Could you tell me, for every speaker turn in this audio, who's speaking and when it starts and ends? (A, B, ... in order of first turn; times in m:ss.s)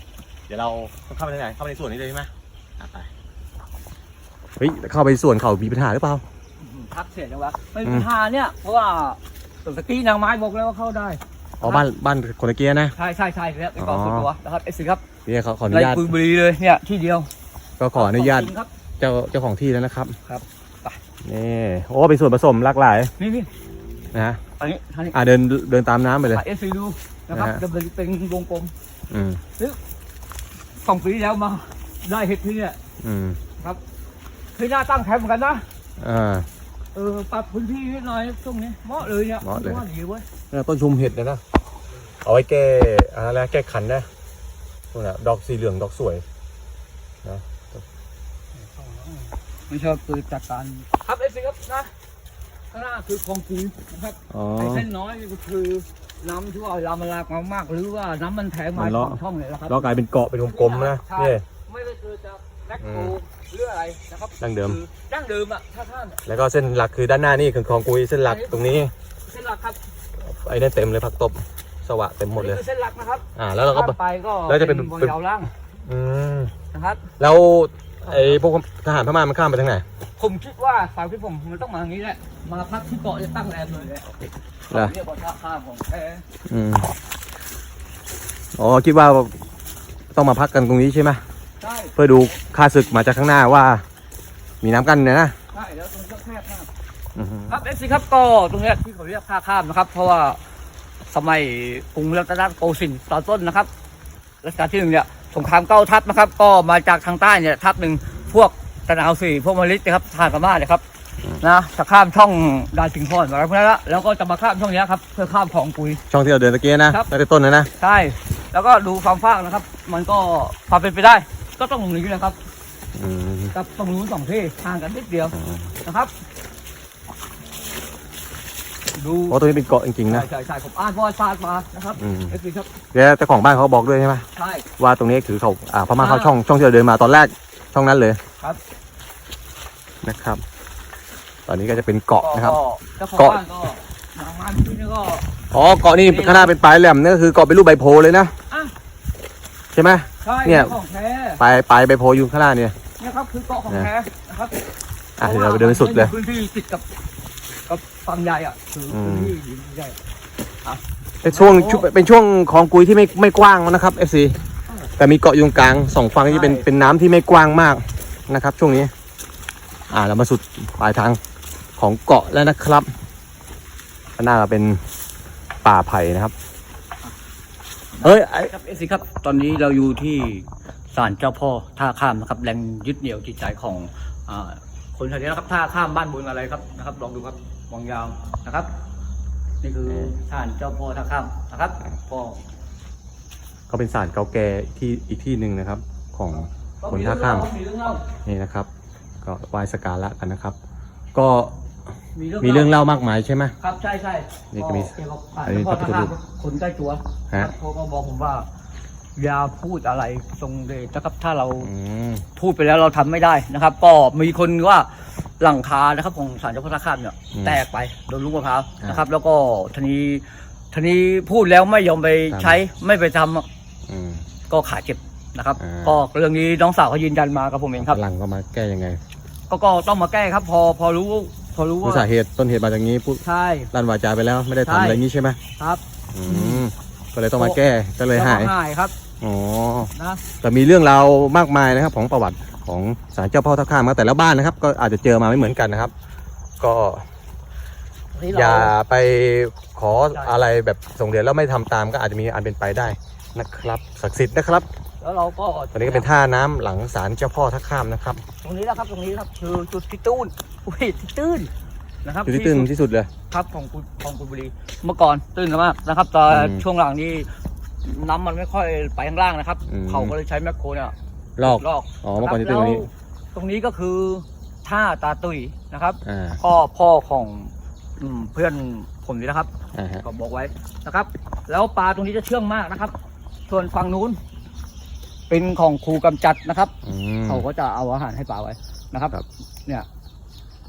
0:00.5-0:03.1 A
0:04.6-0:06.2 A
0:06.6-0:11.8 B
0:11.6-0:12.9 A
0:13.0-0:15.0 B
0:13.8-0:14.3 A
0:15.2-0:16.1 A
0:15.7-0:17.3 B
0:17.8-0:20.2 A
0:17.9-0:18.7 B
0:20.2-0:21.0 B
0:21.2-0:23.1 A
0:23.2-0:23.5 B
0:24.1-0:24.4 A
0:24.6-0:25.1 B
0:25.1-0:26.4 A
0:26.3-0:28.7 B
0:27.3-0:27.6 A
0:29.1-0:29.4 A
0:30.8-0:32.8 B
0:33.0-0:33.4 A
0:34.6-0:35.6 B
0:36.0-0:36.5 A
0:36.9-0:40.2 B
0:39.4-0:39.8 A
0:40.5-0:41.4 A
0:42.2-0:44.1 A
0:44.9-0:46.2 A
0:47.2-0:47.8 A
0:48.6-0:51.9 B
0:52.7-0:59.8 B
0:54.3-0:54.9 A
0:58.7-1:01.4 A
1:00.5-1:06.2 B
1:02.8-1:03.1 A
1:04.4-1:04.8 A
1:06.2-1:08.9 A
1:08.2-1:09.8 B
1:10.2-1:12.6 A
1:12.4-1:15.5 B
1:13.4-1:15.1 A
1:15.8-1:16.5 A
1:16.7-1:17.1 B
1:17.2-1:19.8 A
1:20.2-1:26.2 B
1:26.5-1:26.9 A
1:28.5-1:29.3 A
1:30.1-1:31.2 A
1:31.6-1:31.9 B
1:32.0-1:33.8 A
1:34.6-1:35.3 A
1:35.5-1:36.7 B
1:37.2-1:37.6 A
1:37.5-1:40.4 B
1:41.1-1:43.7 B
1:44.4-1:50.8 B
1:51.4-1:56.0 B
1:56.1-1:57.7 A
1:57.8-2:02.4 B
2:03.0-2:03.5 A
2:03.5-2:06.1 B
2:05.3-2:05.7 A
2:09.0-2:09.4 B
2:09.3-2:10.3 A
2:10.1-2:12.7 B
2:12.0-2:12.3 A
2:12.9-2:14.2 A
2:14.3-2:14.7 B
2:14.8-2:18.2 A
2:16.0-2:16.3 B
2:20.0-2:20.4 A
2:21.5-2:22.6 A
2:22.2-2:25.2 B
2:23.1-2:23.4 A
2:25.5-2:28.3 A
2:26.0-2:26.5 B
2:29.7-2:30.8 A
2:30.2-2:31.4 B
2:31.4-2:32.7 A
2:33.0-2:34.6 B
2:35.2-2:36.1 A
2:35.2-2:36.8 B
2:37.7-2:40.0 B
2:38.9-2:39.4 A
2:40.6-2:41.8 B
2:41.2-2:44.4 A
2:45.0-2:48.9 A
2:46.3-2:46.6 B
2:49.9-2:51.2 A
2:51.8-2:52.9 A
2:54.2-2:54.8 A
2:55.6-2:56.3 A
2:58.0-3:08.7 B
2:58.0-2:58.5 A
3:09.6-3:12.4 B
3:09.8-3:10.1 A
3:13.7-3:17.4 A
3:16.8-3:18.0 B
3:18.2-3:18.7 A
3:19.2-3:20.6 A
3:21.1-3:21.5 A
3:22.1-3:22.7 B
3:22.4-3:23.5 A
3:23.6-3:28.5 B
3:24.5-3:26.1 A
3:29.2-3:31.7 B
3:31.6-3:32.2 A
3:32.4-3:43.5 B
3:37.3-3:37.6 A
3:42.3-3:42.6 A
3:43.9-3:44.2 A
3:44.5-3:48.0 B
3:45.6-3:46.0 A
3:47.8-3:49.0 A
3:49.5-3:52.1 B
3:51.8-3:55.4 A
3:53.2-3:53.7 B
3:54.6-3:55.0 B
3:55.6-3:56.6 B
3:56.1-3:58.5 A
3:58.1-3:58.9 B
3:59.2-4:05.9 A
3:59.9-4:00.2 B
4:06.6-4:07.0 A
4:08.1-4:08.7 B
4:08.3-4:14.7 A
4:15.0-4:16.1 B
4:15.7-4:18.2 A
4:18.4-4:21.5 B
4:22.0-4:22.7 B
4:22.2-4:23.1 A
4:23.3-4:27.3 B
4:26.3-4:26.6 A
4:27.8-4:39.5 B
4:29.7-4:30.1 A
4:31.4-4:32.9 A
4:36.0-4:36.4 A
4:39.7-4:40.0 A
4:40.0-4:42.9 B
4:43.5-4:44.2 B
4:45.3-4:46.7 B
4:46.8-4:47.4 A
4:47.3-4:49.2 B